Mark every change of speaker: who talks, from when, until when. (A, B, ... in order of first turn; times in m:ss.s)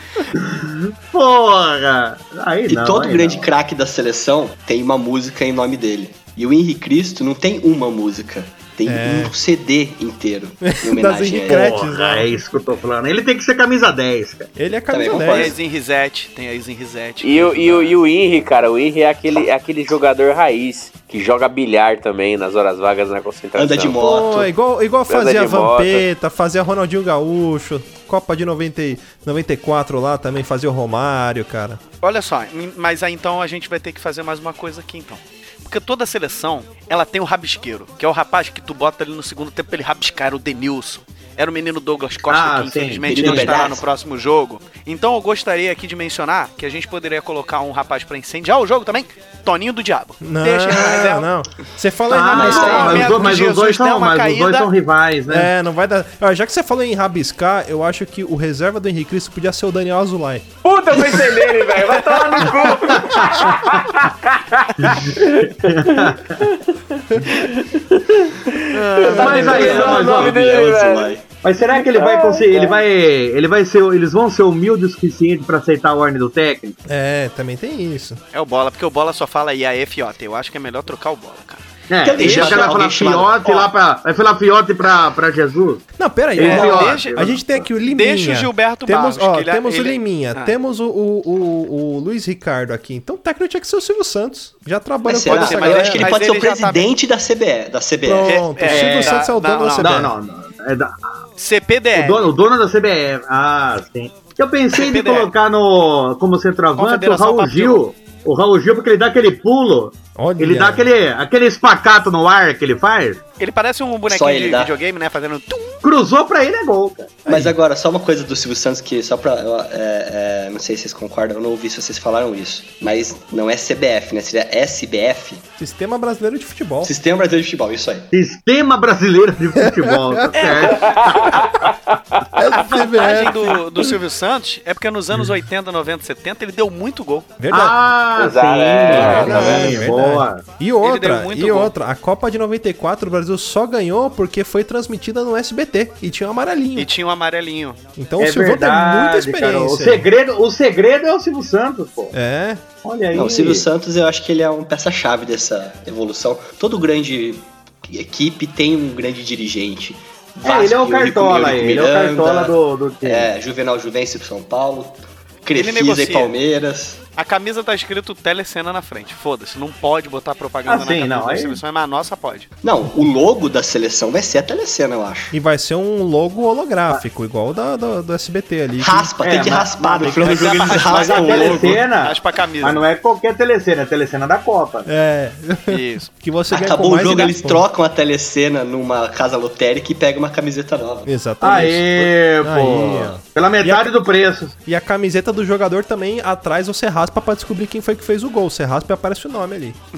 0:00.4-0:03.5 A
0:02.7-0:11.8 B
0:08.9-0:09.3 C
0:10.6-0:12.4 C
0:11.5-0:14.5 A
0:14.6-0:15.6 C
0:14.9-0:15.6 B
0:15.1-0:18.0 D
0:17.2-0:24.0 E
0:23.6-0:24.5 B
0:24.0-0:31.8 C
0:25.1-0:26.1 E
0:32.0-0:51.3 D
0:42.3-0:43.7 A
0:43.1-0:43.8 B
0:50.2-0:53.4 C
0:52.1-0:55.5 A
0:52.2-0:54.7 D
0:52.3-0:53.1 B
0:55.3-1:00.5 C
1:00.6-1:11.2 E
1:02.9-1:03.5 A
1:04.9-1:06.4 A
1:08.7-1:10.0 D
1:09.0-1:10.4 A
1:09.1-1:11.3 B
1:11.4-1:16.8 A
1:11.7-1:12.8 E
1:16.9-1:18.2 C
1:18.3-1:21.6 D
1:21.9-1:27.6 A
1:22.0-1:23.5 B
1:22.2-1:22.8 D
1:23.4-1:23.7 D
1:26.0-1:36.2 C
1:26.4-1:27.3 D
1:26.5-1:26.9 B
1:27.9-1:30.6 D
1:35.0-1:38.5 B
1:35.3-1:36.9 D
1:38.0-1:40.1 C
1:38.2-1:40.1 D
1:38.7-1:39.2 A
1:39.8-1:41.0 A
1:41.4-1:42.3 D
1:41.9-1:53.2 A
1:44.7-1:45.3 D
1:46.8-1:47.8 D
1:50.2-1:50.9 C
1:53.4-1:55.8 D
1:54.1-1:54.7 B
1:55.8-1:57.2 A
1:57.3-1:57.6 C
1:57.3-2:05.4 B
2:05.6-2:06.9 C
2:06.8-2:08.1 B
2:08.1-2:11.5 A
2:09.6-2:10.5 C
2:10.5-2:12.4 E
2:12.4-2:14.0 C
2:12.6-2:17.4 D
2:17.4-2:17.8 C
2:17.5-2:20.4 A
2:18.2-2:19.8 E
2:18.9-2:26.9 C
2:20.8-2:21.7 D
2:26.8-2:27.8 D
2:28.0-2:30.1 C
2:28.2-2:32.1 A
2:32.1-2:32.6 C
2:32.8-2:33.7 A
2:33.1-2:47.0 B
2:40.4-2:43.3 A
2:45.6-2:46.4 D
2:47.2-2:52.5 D
2:50.7-2:51.6 A
2:52.6-2:55.3 B
2:55.3-2:59.1 C
2:58.8-3:01.8 B
2:59.2-3:04.9 A
3:00.0-3:00.4 C
3:00.1-3:02.8 D
3:04.9-3:07.6 C
3:05.7-3:06.1 D
3:06.5-3:11.1 B
3:11.1-3:14.0 C
3:11.4-3:14.6 A
3:14.7-3:19.8 C